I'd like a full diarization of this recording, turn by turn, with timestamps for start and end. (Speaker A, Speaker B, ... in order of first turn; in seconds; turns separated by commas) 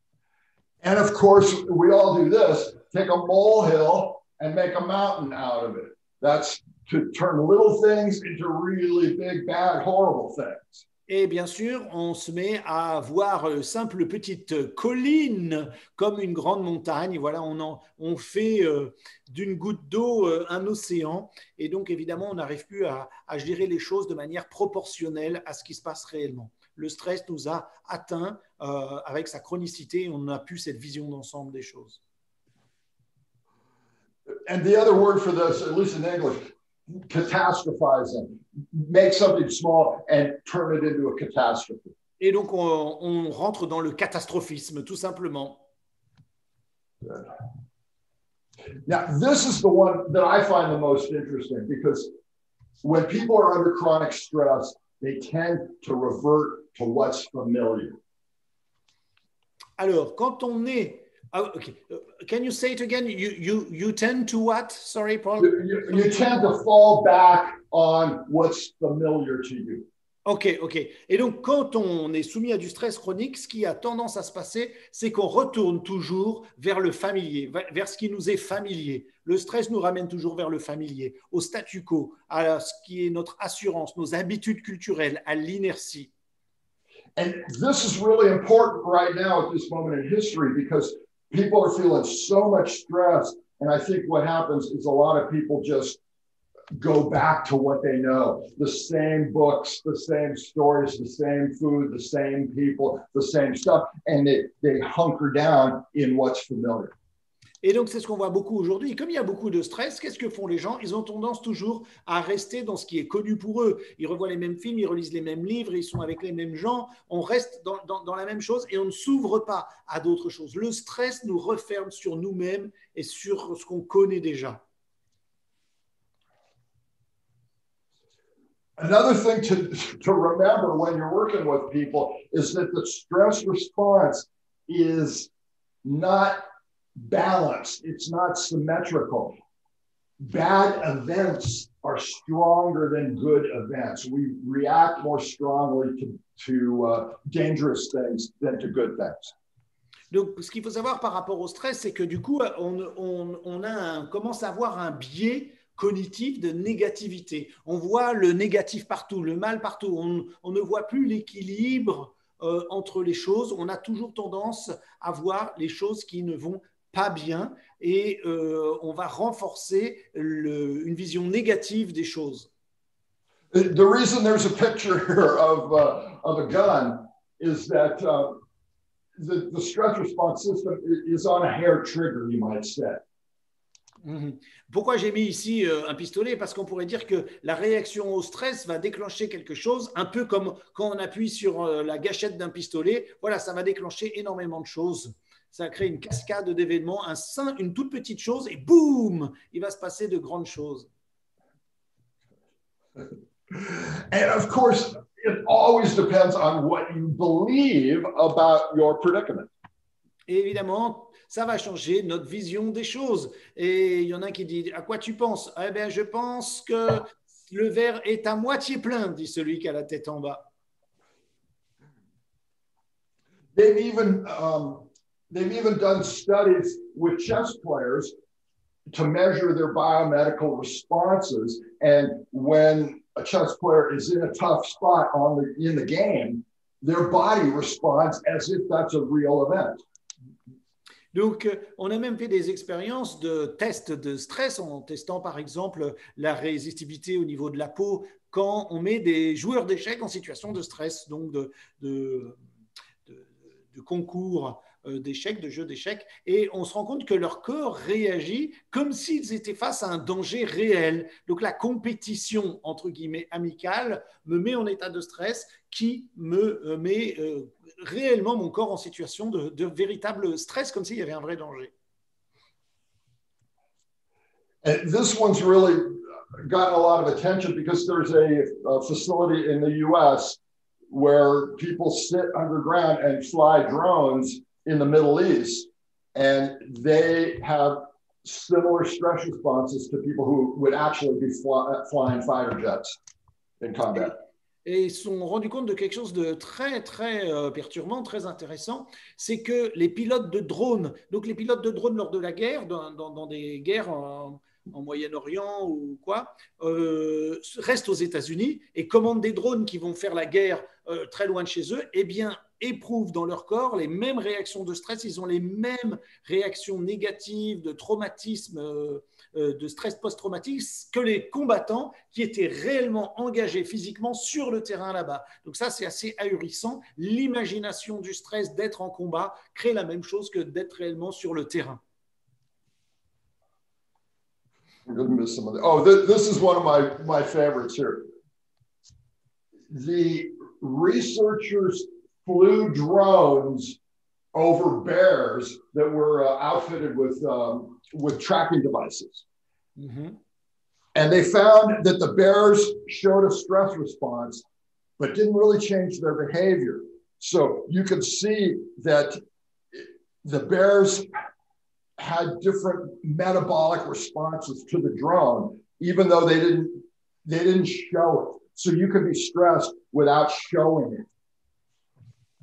Speaker A: 0.8-10.8, Speaker B: 11.1-32.0, Speaker A: 34.3-42.0, Speaker B: 42.2-45.6, Speaker A: 47.0-47.3, Speaker A: 48.9-52.1, Speaker A: 52.8-58.0, Speaker B: 59.8-65.7, Speaker A: 65.4-69.9, Speaker B: 70.2-86.1, Speaker A: 87.2-96.0, Speaker A: 96.8-106.9, Speaker B: 107.6-124.6, Speaker A: 128.8-135.3, Speaker A: 135.8-136.4, Speaker A: 137.0-139.3, Speaker A: 140.2-149.3, Speaker B: 150.1-172.5, Speaker A: 173.5-178.4, Speaker A: 179.2-183.0, Speaker B: 184.0-200.9, Speaker A: 203.5-209.5, Speaker B: 210.3-220.5, Speaker A: 223.6-228.1, Speaker A: 228.9-239.8, Speaker B: 241.1-252.4, Speaker B: 253.1-271.7, Speaker A: 274.6-280.4, Speaker A: 280.9-293.0, Speaker A: 293.6-294.2, Speaker B: 294.6-331.8, Speaker A: 334.9-338.1, Speaker A: 339.7-343.8, Speaker A: 344.3-349.2, Speaker B: 349.8-350.2, Speaker A: 350.9-354.4, Speaker A: 355.0-359.2, Speaker A: 359.7-361.1, Speaker A: 362.0-371.1